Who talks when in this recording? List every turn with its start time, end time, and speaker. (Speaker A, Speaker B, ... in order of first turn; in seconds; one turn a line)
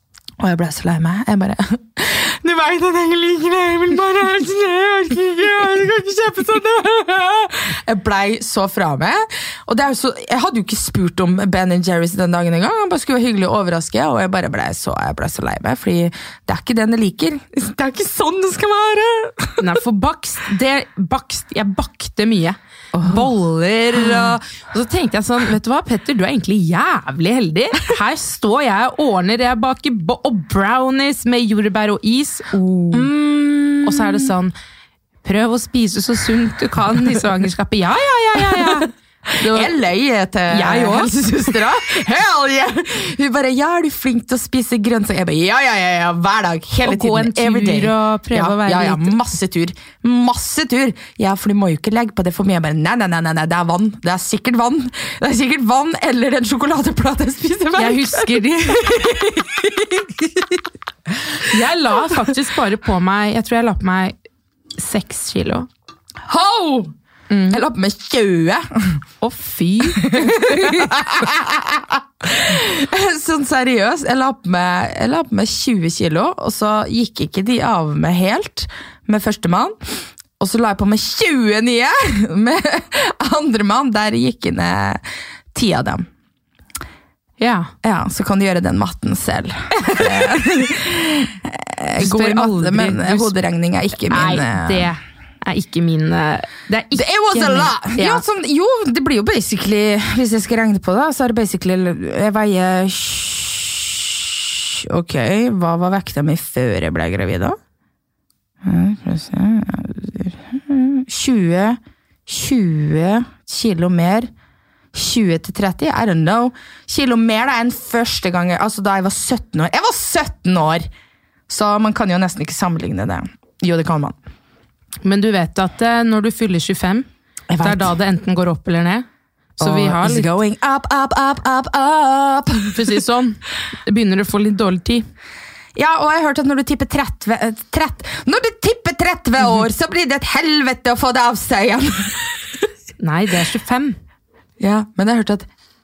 Speaker A: 0.4-19.6
Speaker B: 19.6-33.1
Speaker A: 22.9-23.3
Speaker A: 23.9-24.3
Speaker A: 32.9-34.3
Speaker B: 33.8-34.5
Speaker B: 35.2-39.7
Speaker A: 38.5-60.6
Speaker B: 40.5-41.1
Speaker B: 46.8-49.1
Speaker B: 57.8-59.2
Speaker B: 61.4-64.2
Speaker B: 64.8-65.7
Speaker A: 66.2-66.9
Speaker B: 67.3-67.6
Speaker A: 67.5-69.0
Speaker B: 69.2-70.9
Speaker A: 70.0-86.1
Speaker B: 87.4-87.7
Speaker A: 87.8-94.9
Speaker B: 89.8-90.6
Speaker B: 92.0-93.3
Speaker B: 94.1-98.2
Speaker A: 96.9-107.6
Speaker A: 108.6-114.3
Speaker A: 114.9-120.9
Speaker A: 121.5-124.1
Speaker B: 125.0-127.1
Speaker A: 127.5-128.0
Speaker B: 127.6-129.0
Speaker B: 129.6-130.3
Speaker A: 129.6-133.0
Speaker B: 132.7-135.1
Speaker A: 135.7-142.5
Speaker B: 143.0-144.0
Speaker A: 144.6-145.5